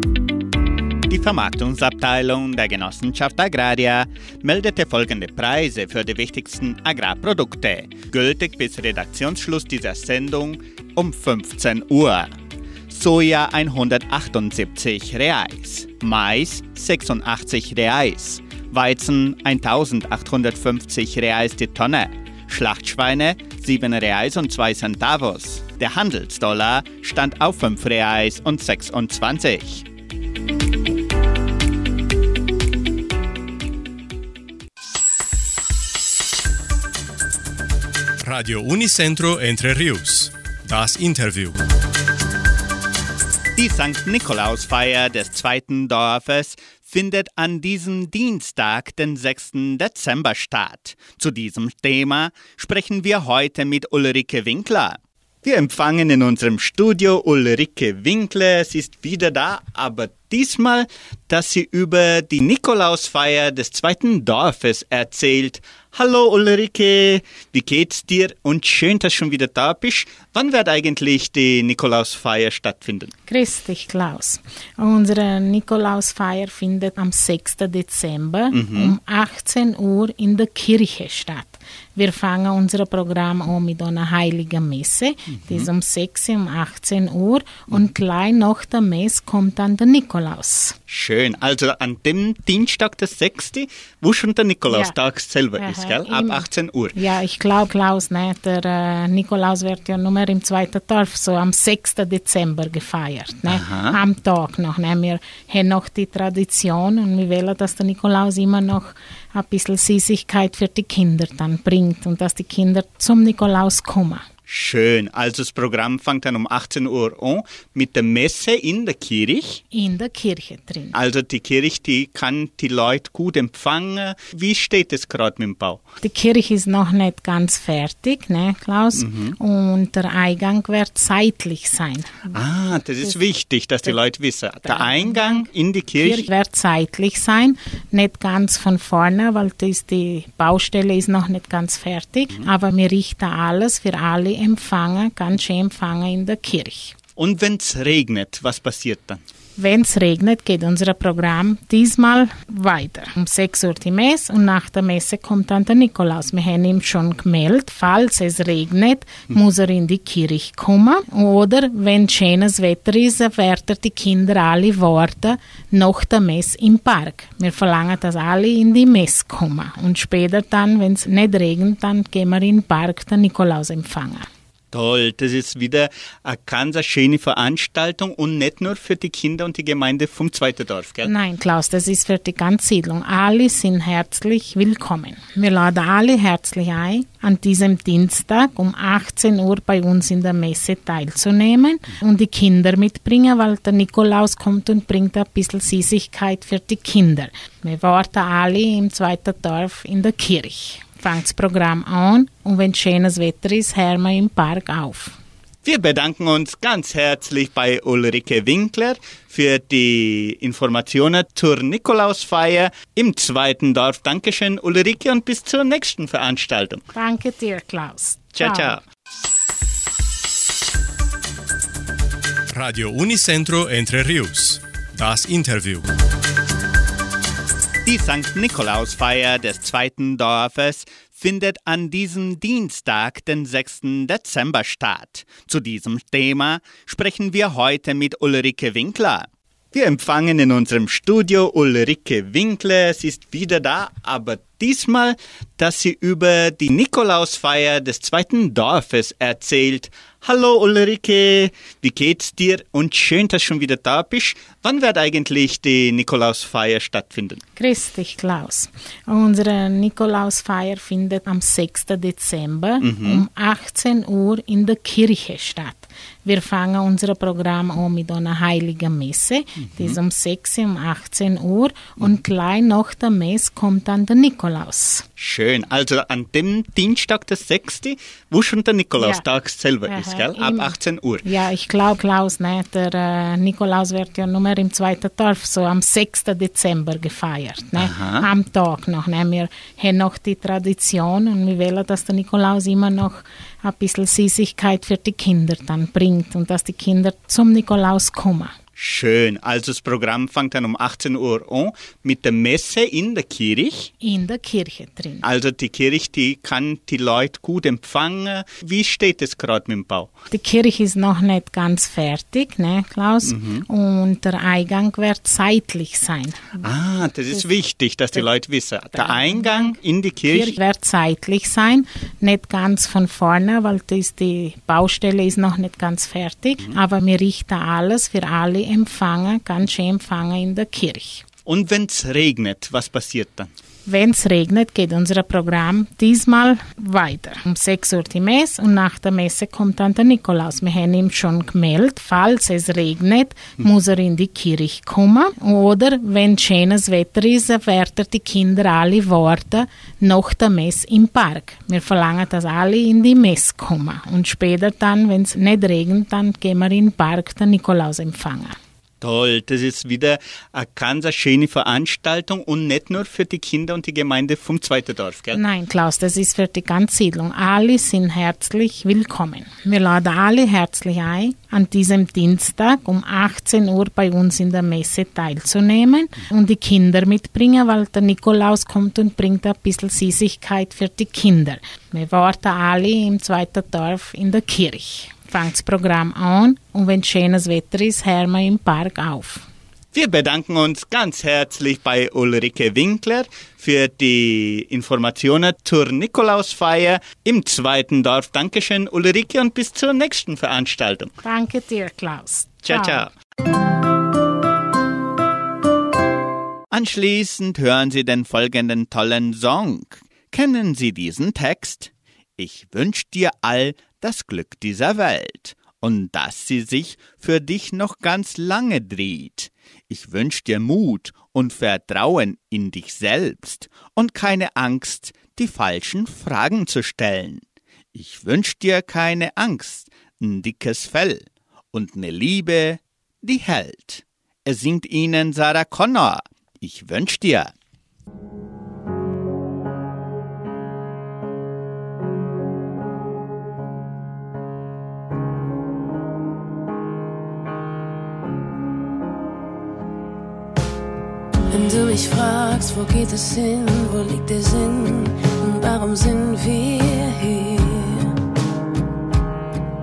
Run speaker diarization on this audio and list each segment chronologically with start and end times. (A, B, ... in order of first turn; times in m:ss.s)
0:01.1-0:12.3 A
0:12.9-0:29.8 A
0:38.2-0:41.6 B
0:43.6-1:13.1 A
1:13.3-1:30.8 C
1:18.5-1:18.9 A
1:30.9-1:37.0 A
1:34.7-1:35.0 C
1:35.6-1:54.2 C
1:43.5-1:44.0 A
1:54.5-1:59.6 A
1:59.7-2:01.0 C
2:00.9-2:05.8 A
2:06.0-2:12.3 C
2:09.0-2:09.4 A
2:12.3-2:16.3 A
2:14.6-2:15.5 C
2:16.0-2:27.0 C
2:27.2-2:29.2 A
2:29.6-2:54.3 C
2:54.7-3:01.1 A
3:01.0-3:25.2 C
3:25.6-3:36.8 A
3:36.9-3:38.8 C
3:38.4-3:38.8 A
3:42.5-3:45.9 B
3:47.8-4:17.4 A
4:17.6-4:35.0 C
4:22.8-4:23.2 A
4:29.7-4:30.0 A
4:35.2-4:41.3 A
4:39.0-4:39.3 C
4:39.9-4:58.6 C
4:47.8-4:48.3 A
4:58.8-5:03.9 A
5:04.0-5:05.3 C
5:05.2-5:10.1 A
5:10.3-5:16.6 C
5:13.2-5:13.6 A
5:16.6-5:20.6 A
5:18.9-5:31.2 C
5:31.5-5:33.5 A
5:33.9-5:58.6 C
5:59.0-6:05.4 A
6:05.3-6:29.5 C
6:29.9-6:41.1 A
6:41.2-6:43.1 C
6:42.6-6:43.1 A
6:46.7-7:07.4 A
7:08.0-7:17.5 A
7:31.5-7:38.1 D